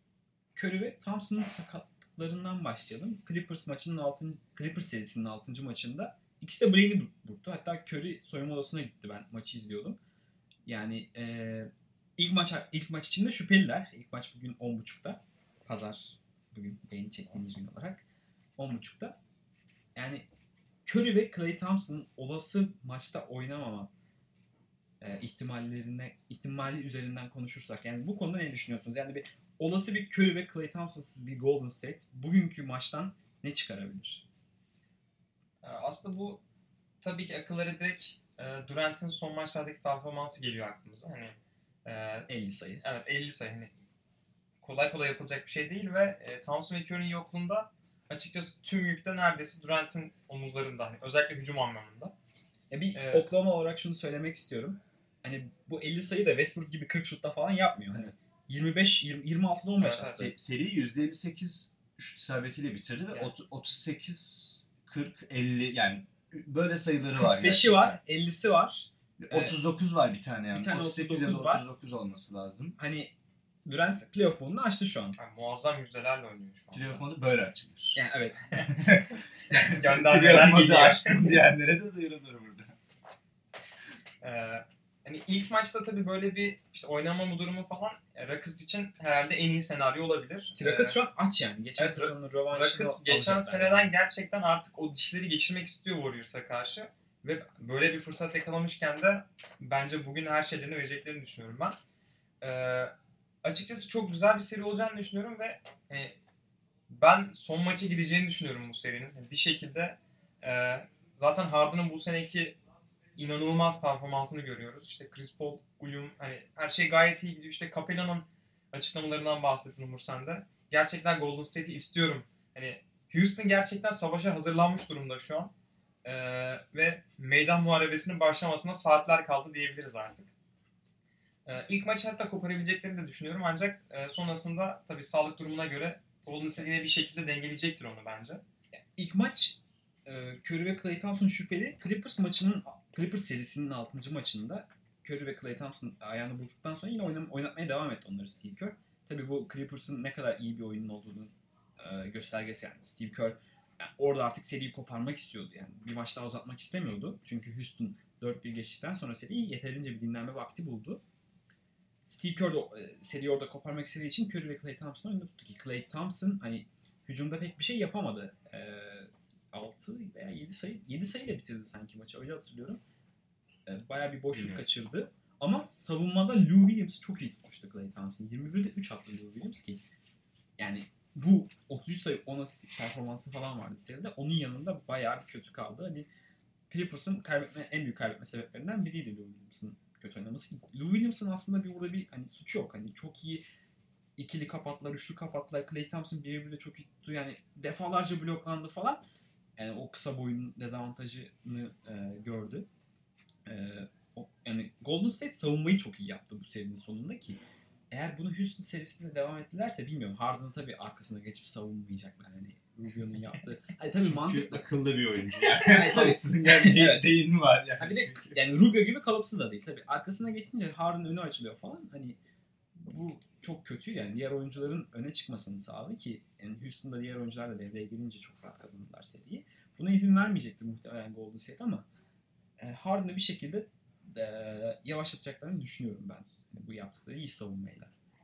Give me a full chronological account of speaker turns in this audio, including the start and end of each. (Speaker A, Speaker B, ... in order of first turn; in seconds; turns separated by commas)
Speaker A: 0.5-10.0, Speaker A: 10.7-18.0, Speaker A: 18.6-19.2, Speaker A: 19.9-20.3, Speaker A: 20.9-23.9, Speaker A: 25.0-34.2, Speaker B: 35.6-36.4, Speaker B: 37.0-42.3, Speaker A: 42.3-42.8, Speaker B: 42.8-43.7, Speaker B: 44.6-52.1, Speaker A: 52.7-60.3, Speaker B: 52.9-53.3, Speaker B: 59.8-60.3, Speaker C: 60.0-68.0, Speaker A: 67.2-69.6, Speaker C: 69.2-72.8, Speaker A: 70.5-71.6, Speaker A: 72.8-73.1, Speaker A: 73.6-75.2, Speaker B: 75.2-77.0, Speaker C: 76.7-78.0, Speaker A: 77.9-78.6, Speaker C: 78.6-82.7, Speaker B: 79.5-81.4, Speaker B: 84.2-91.0, Speaker A: 90.6-93.9, Speaker B: 91.8-101.8, Speaker B: 102.4-102.9, Speaker B: 103.4-106.1, Speaker B: 106.9-112.5, Speaker B: 113.2-125.5, Speaker B: 126.0-130.3, Speaker B: 131.4-138.4, Speaker A: 138.9-161.0, Speaker A: 162.1-172.8, Speaker A: 173.7-179.8, Speaker C: 174.3-174.6, Speaker A: 180.6-186.1, Speaker A: 186.7-193.4, Speaker A: 194.2-199.0, Speaker A: 199.6-202.7, Speaker A: 203.4-207.4, Speaker A: 207.9-214.6, Speaker C: 214.0-218.4, Speaker A: 215.4-217.2, Speaker A: 217.8-222.2, Speaker A: 222.8-231.9, Speaker A: 232.6-237.9